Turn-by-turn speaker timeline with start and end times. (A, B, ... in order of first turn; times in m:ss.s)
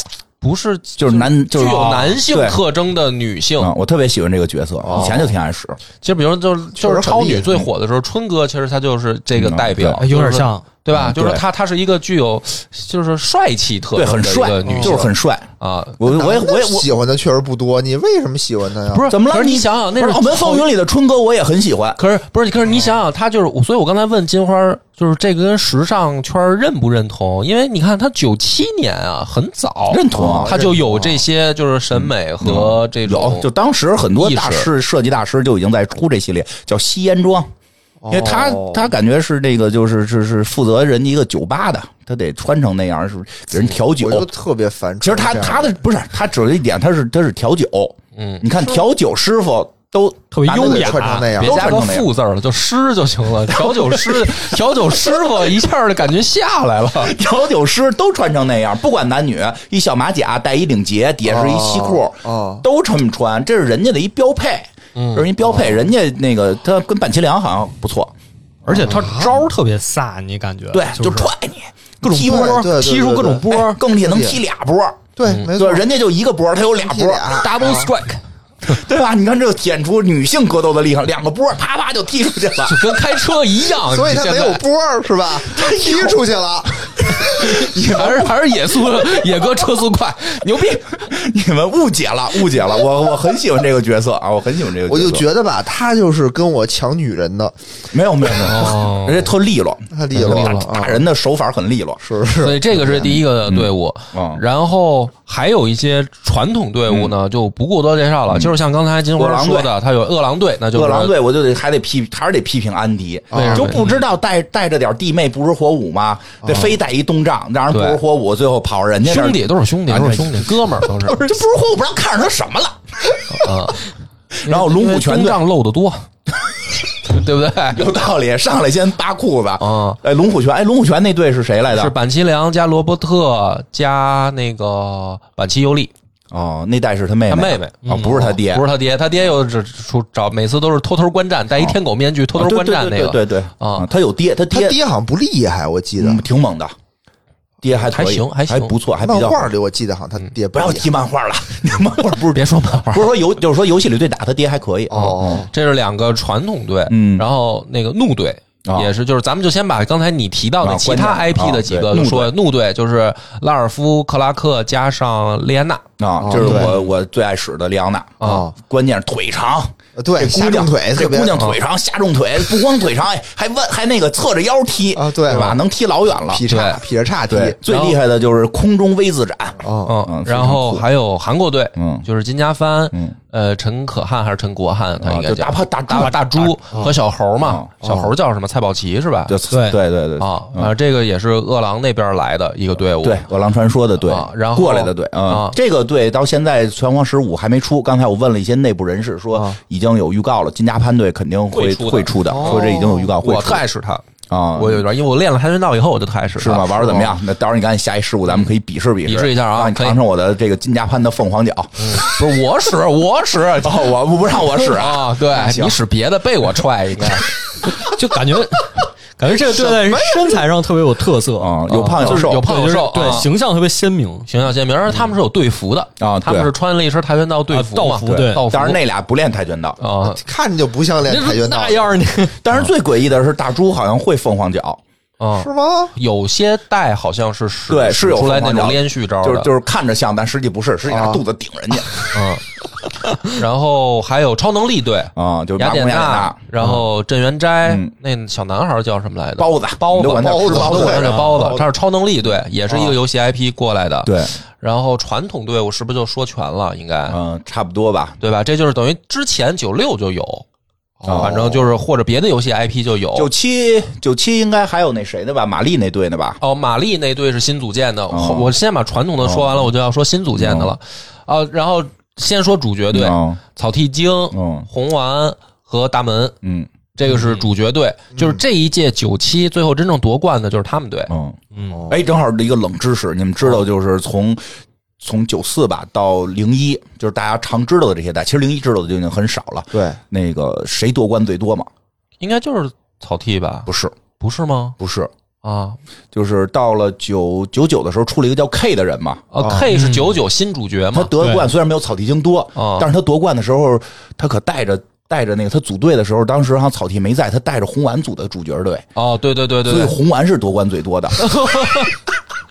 0:00.4-0:03.7 A
0:01.0-0:02.6 B
0:03.6-0:05.8 B
0:04.8-0:05.3 C
0:06.0-0:16.0 A
0:06.8-0:07.5 C
0:09.3-0:10.0 B
0:10.0-0:10.6 D
0:10.9-0:11.4 B
0:13.9-0:16.9 B
0:14.7-0:15.0 C
0:16.0-0:19.1 C
0:18.9-0:20.7 A
0:19.1-0:22.0 B
0:22.0-0:33.5 A
0:29.9-0:30.6 B
0:30.1-0:31.2 C
0:31.9-0:37.5 B
0:34.2-0:34.7 A
0:38.0-0:38.9 C
0:38.1-0:44.3 B
0:44.0-0:45.8 C
0:45.0-0:52.1 B
0:48.2-0:48.5 A
0:50.3-0:51.3 D
0:50.5-0:51.7 C
0:51.4-0:57.1 A
0:57.0-1:08.1 B
1:01.2-1:02.6 C
1:04.9-1:05.3 A
1:05.4-1:05.8 C
1:08.6-1:11.3 D
1:08.7-1:09.3 C
1:10.7-1:17.7 B
1:12.1-1:14.4 C
1:12.2-1:12.6 D
1:15.2-1:15.8 C
1:16.8-1:17.9 C
1:17.4-1:18.2 A
1:18.6-1:22.9 B
1:22.6-1:24.6 A
1:23.8-1:27.6 C
1:25.4-1:26.2 B
1:27.3-1:31.0 A
1:27.5-1:28.3 B
1:30.6-1:35.2 B
1:34.9-1:37.6 C
1:37.9-1:42.0 B
1:38.4-1:39.3 A
1:39.9-1:41.0 C
1:40.1-1:40.7 A
1:42.0-1:43.1 C
1:42.4-1:51.1 A
1:43.4-1:44.4 B
1:46.9-1:47.1 B
1:49.2-1:49.7 B
1:50.7-2:02.8 B
1:53.3-1:53.8 C
1:53.3-1:54.0 A
1:56.4-1:56.8 C
1:57.7-1:58.0 A
1:59.0-2:01.2 A
2:03.3-2:03.9 A
2:04.4-2:05.4 B
2:04.4-2:06.1 A
2:07.0-2:07.8 A
2:07.7-2:11.9 B
2:09.6-2:10.0 A
2:11.7-2:15.9 A
2:16.3-2:18.7 B
2:17.3-2:23.9 A
2:17.8-2:18.2 D
2:22.3-2:24.8 B
2:24.5-2:26.2 C
2:26.0-2:26.7 B
2:27.6-2:29.5 B
2:27.8-2:28.7 A
2:29.0-2:30.9 C
2:30.5-2:35.4 B
2:32.3-2:33.2 A
2:34.9-2:35.5 C
2:34.9-2:46.9 A
2:36.9-2:37.2 B
2:38.6-2:38.9 B
2:40.6-2:42.3 B
2:46.0-2:56.4 B
2:46.2-2:46.7 C
2:48.2-2:48.5 A
2:48.2-2:48.5 C
2:50.0-2:51.4 C
2:54.9-2:55.6 C
2:55.3-2:55.6 A
2:56.3-2:57.6 C
2:56.5-2:56.8 A
2:57.3-3:00.8 B
2:57.6-2:58.0 A
2:59.6-2:59.9 C
2:59.8-3:09.4 A
3:01.8-3:02.0 B
3:05.0-3:06.6 B
3:07.4-3:07.7 B
3:07.8-3:08.1 C
3:09.3-3:10.7 B
3:09.5-3:09.8 D
3:10.2-3:13.2 A
3:13.0-3:23.6 B
3:14.0-3:15.6 A
3:21.5-3:24.0 A
3:22.3-3:23.1 C
3:24.3-3:24.8 B
3:24.6-3:27.0 A
3:26.4-3:32.0 B
3:26.8-3:27.1 C
3:29.0-3:30.0 A
3:31.8-3:37.3 A
3:33.6-3:35.8 B
3:37.7-3:44.3 D
3:39.4-3:40.4 C
3:41.4-3:42.4 B
3:41.7-3:43.3 A
3:44.3-3:48.8 A
3:46.0-3:46.5 B
3:47.5-3:48.4 D
3:48.0-3:49.8 B
3:49.8-3:50.2 A
3:50.0-3:51.9 C
3:51.1-3:52.6 D
3:52.4-3:54.8 B
3:55.2-3:59.5 A
3:55.4-3:55.9 C
3:57.7-4:02.0 B
4:00.9-4:01.2 C
4:02.1-4:02.4 A
4:03.1-4:17.2 A
4:05.1-4:06.8 B
4:07.6-4:07.9 B
4:09.4-4:11.6 B
4:10.0-4:10.2 D
4:10.1-4:11.2 C
4:10.8-4:11.4 D
4:14.0-4:14.4 B
4:17.1-4:18.2 B
4:18.2-4:20.4 A
4:21.0-4:21.6 C
4:21.0-4:21.6 B
4:21.1-4:23.3 A
4:23.1-4:26.4 B
4:26.4-4:36.4 A
4:28.1-4:28.5 B
4:29.2-4:29.7 B
4:30.4-4:30.7 B
4:32.9-4:33.4 B
4:34.3-4:34.7 B
4:36.4-4:36.7 B
4:37.0-4:41.1 A
4:38.1-4:38.4 C
4:41.1-4:41.4 B
4:41.5-4:41.8 D
4:41.7-4:42.0 C
4:41.9-4:44.4 B
4:45.0-4:51.7 B
4:49.7-4:50.0 C
4:52.2-4:54.8 A
4:53.7-4:54.0 B
4:54.8-4:55.1 B
4:55.4-4:55.8 A
4:56.1-5:00.0 B
4:59.3-5:01.5 A
4:59.4-4:59.7 C
5:00.9-5:08.8 B
5:02.6-5:02.9 A
5:09.0-5:09.9 A
5:09.6-5:11.2 B
5:11.2-5:12.0 A